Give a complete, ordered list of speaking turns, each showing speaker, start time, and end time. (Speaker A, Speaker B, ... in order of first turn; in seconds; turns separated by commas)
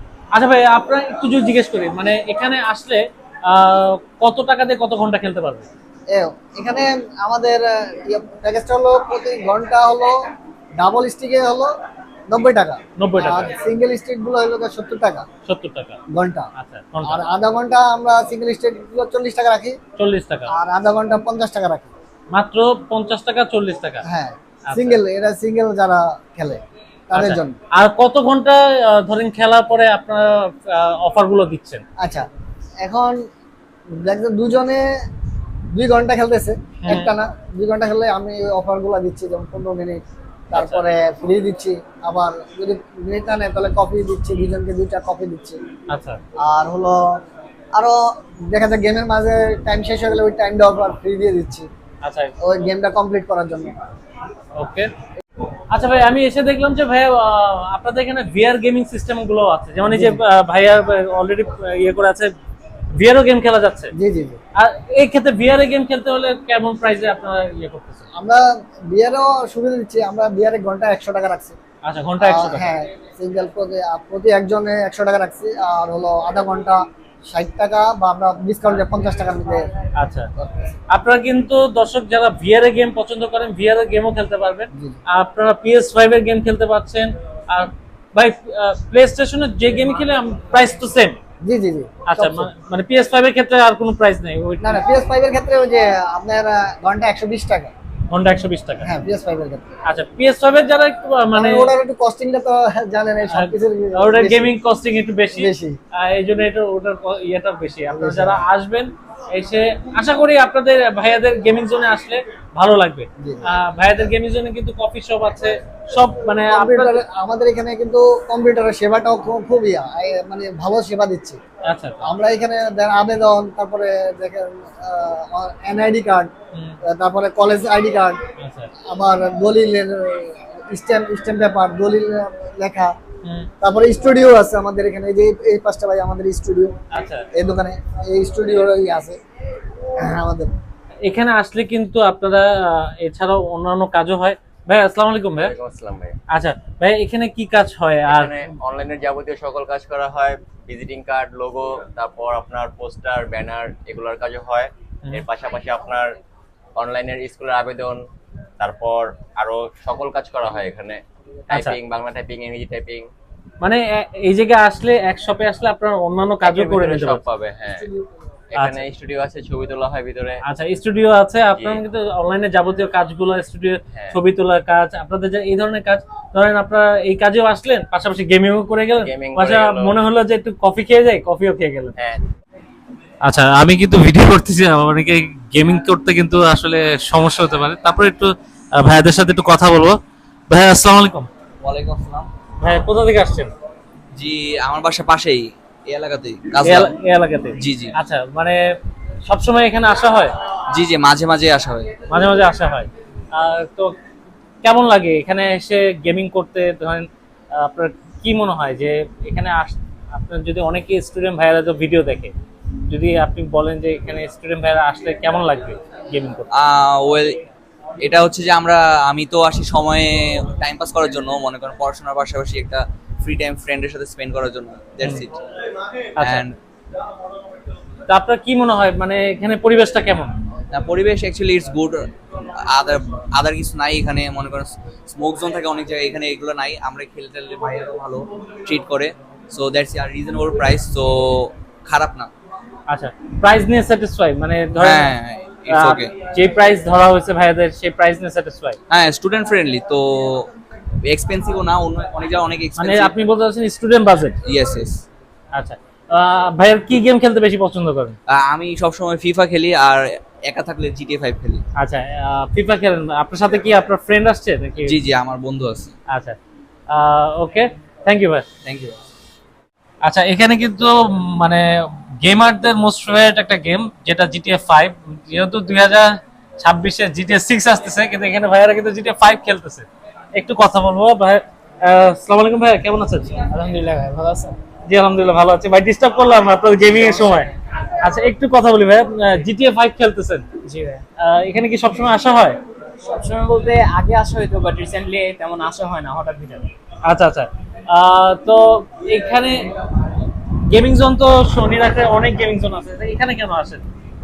Speaker A: 0.3-5.7, Speaker B: 6.1-10.2, Speaker B: 10.8-11.7, Speaker B: 12.3-15.2, Speaker A: 13.0-13.5, Speaker A: 15.4-16.0, Speaker B: 16.1-16.5, Speaker A: 16.6-17.2, Speaker B: 17.0-19.8, Speaker A: 20.0-20.5, Speaker B: 20.5-21.9, Speaker A: 22.3-24.0, Speaker B: 24.0-27.6, Speaker A: 24.7-25.0, Speaker A: 27.1-31.8, Speaker B: 32.0-32.2, Speaker B: 32.8-33.2, Speaker B: 34.0-34.8, Speaker B: 35.7-45.6, Speaker A: 36.8-37.1, Speaker A: 40.5-40.8, Speaker A: 45.9-46.2, Speaker B: 46.4-47.1, Speaker B: 47.7-51.7, Speaker A: 52.0-52.3, Speaker B: 52.4-53.8, Speaker A: 54.6-54.9, Speaker A: 55.7-62.3, Speaker B: 59.9-60.2, Speaker A: 62.9-63.9, Speaker B: 63.9-64.4, Speaker A: 64.6-68.0, Speaker B: 68.2-71.6, Speaker A: 71.8-72.7, Speaker B: 72.2-79.7, Speaker A: 80.0-80.3, Speaker B: 80.4-80.7, Speaker A: 80.9-91.2, Speaker B: 84.7-85.0, Speaker B: 91.4-92.5, Speaker A: 92.0-94.8, Speaker B: 94.6-97.7, Speaker A: 98.1-98.9, Speaker B: 98.8-99.7, Speaker A: 99.8-101.7, Speaker B: 101.3-104.5, Speaker A: 103.3-117.0, Speaker B: 105.3-105.8, Speaker B: 107.9-108.4, Speaker B: 113.2-113.5, Speaker B: 116.5-121.4, Speaker A: 121.7-122.1, Speaker B: 122.0-126.3, Speaker B: 126.9-128.2, Speaker A: 128.4-128.7, Speaker B: 128.9-132.9, Speaker B: 133.6-136.7, Speaker A: 136.9-137.2, Speaker B: 137.3-139.2, Speaker B: 140.0-140.5, Speaker A: 141.0-145.6, Speaker C: 145.4-146.2, Speaker A: 146.3-148.3, Speaker C: 148.1-156.1, Speaker C: 156.7-158.0, Speaker C: 158.6-163.1, Speaker A: 163.6-167.2, Speaker C: 166.4-167.9, Speaker B: 167.7-168.2, Speaker C: 168.5-170.4, Speaker A: 170.5-181.9, Speaker C: 171.5-171.8, Speaker C: 179.0-179.9, Speaker A: 183.2-190.0, Speaker A: 190.5-191.3, Speaker D: 191.6-192.3, Speaker A: 192.6-193.5, Speaker D: 194.2-196.9, Speaker A: 196.6-198.6, Speaker D: 197.6-197.9, Speaker A: 199.3-200.3, Speaker D: 200.7-201.9, Speaker A: 202.1-203.9, Speaker A: 204.6-212.3, Speaker A: 212.9-216.5, Speaker D: 216.5-217.4, Speaker D: 218.0-225.3, Speaker A: 226.2-226.4, Speaker D: 226.2-226.6, Speaker A: 228.1-230.3, Speaker D: 230.7-232.0, Speaker D: 232.6-242.3, Speaker A: 242.9-245.1, Speaker D: 244.8-246.1, Speaker A: 245.7-248.8, Speaker D: 248.9-250.5, Speaker D: 251.0-253.1, Speaker A: 252.8-254.4, Speaker D: 254.4-255.1, Speaker A: 255.6-258.2, Speaker D: 258.3-261.6, Speaker A: 261.8-265.0, Speaker D: 264.8-265.9, Speaker A: 266.1-266.4, Speaker A: 266.9-268.4, Speaker D: 268.6-269.0, Speaker A: 270.0-283.4, Speaker E: 283.4-284.6, Speaker A: 284.9-290.4, Speaker E: 286.9-287.5, Speaker E: 290.6-291.0, Speaker A: 291.2-292.6, Speaker E: 293.0-296.7, Speaker A: 297.1-299.6, Speaker A: 300.7-303.8